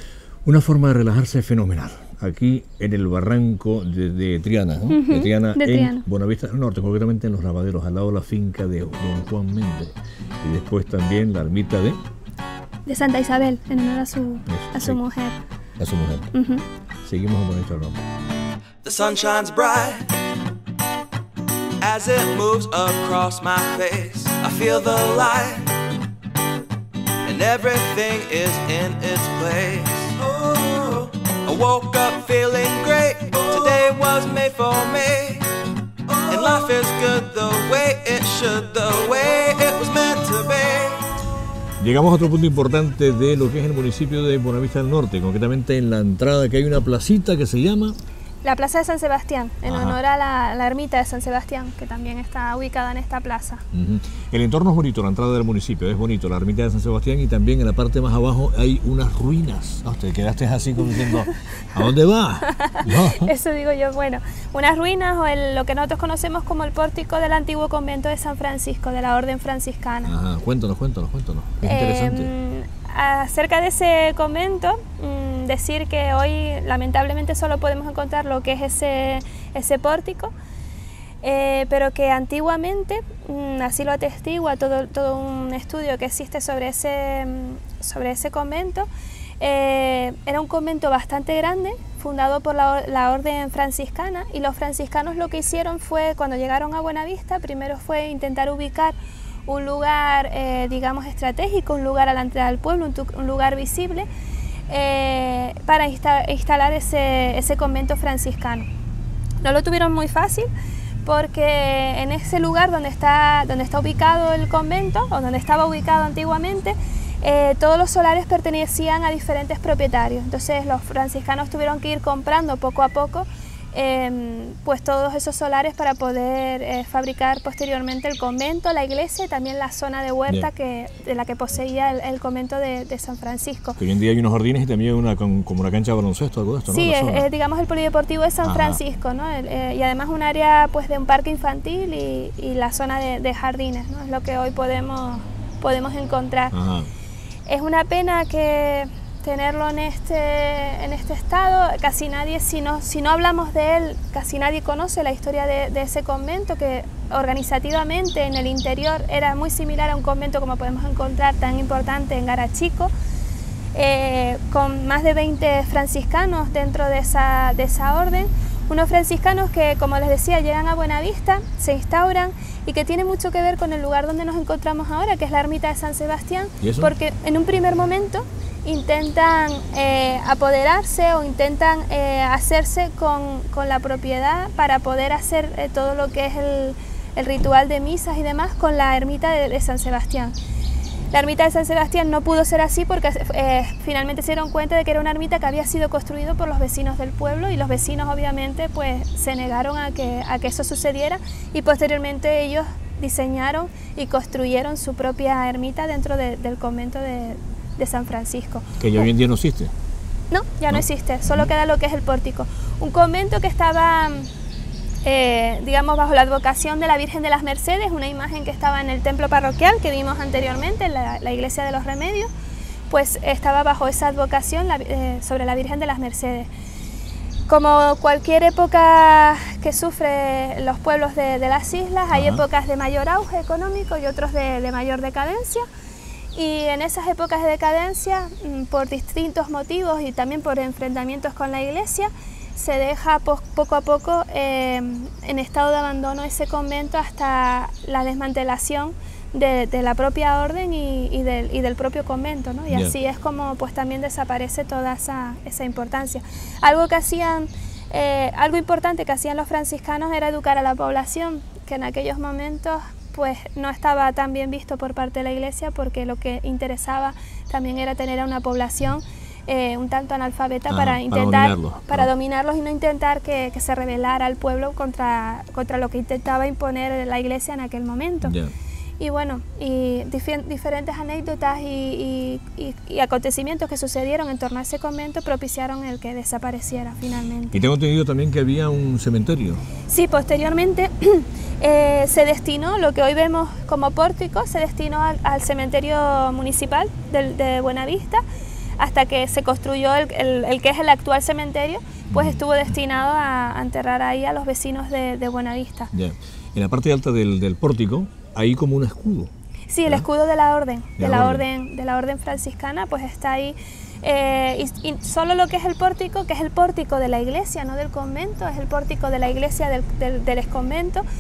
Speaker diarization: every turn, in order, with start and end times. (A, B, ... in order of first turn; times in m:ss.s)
0:00.4-0:12.0 A
0:04.9-0:06.0 B
0:12.9-0:15.4 B
0:14.5-0:15.0 A
0:15.8-0:16.3 A
0:16.3-0:16.6 B
0:17.0-0:18.0 A
0:18.8-0:20.1 C
0:21.8-0:25.7 C
0:27.2-0:35.5 C
0:36.1-0:41.0 C
0:41.8-0:48.0 A
0:48.4-0:53.6 B
0:49.7-0:50.0 A
0:53.7-1:03.3 A
1:02.5-1:10.1 B
1:10.0-1:12.3 A
1:11.6-1:20.3 B
1:21.2-1:28.9 B
1:29.4-1:39.0 B
1:39.5-1:44.1 B
1:44.7-1:48.7 B
1:49.4-1:50.5 B
1:51.0-2:13.8 B
2:13.8-2:17.3 A
2:16.7-2:26.6 B
2:18.4-2:18.8 A
2:26.5-2:26.9 A
2:27.5-2:42.9 B
2:43.7-3:10.4 B
2:56.6-2:56.9 A
3:11.1-3:29.1 B
3:28.8-3:29.7 A
3:30.3-3:34.3 B
3:30.7-3:31.5 A
3:35.0-3:42.3 B
3:42.9-3:46.5 B
3:47.5-3:55.7 B
3:52.1-3:52.4 A
3:56.3-4:38.4 B
4:12.7-4:13.0 A
4:30.7-4:32.1 A
4:38.2-4:38.5 A
4:39.0-4:47.6 B
4:47.5-4:49.6 A
4:49.9-4:58.2 B
4:58.8-5:05.9 B
5:02.1-5:02.4 A
5:05.9-5:09.3 A
5:09.7-5:21.0 B
5:11.0-5:11.5 A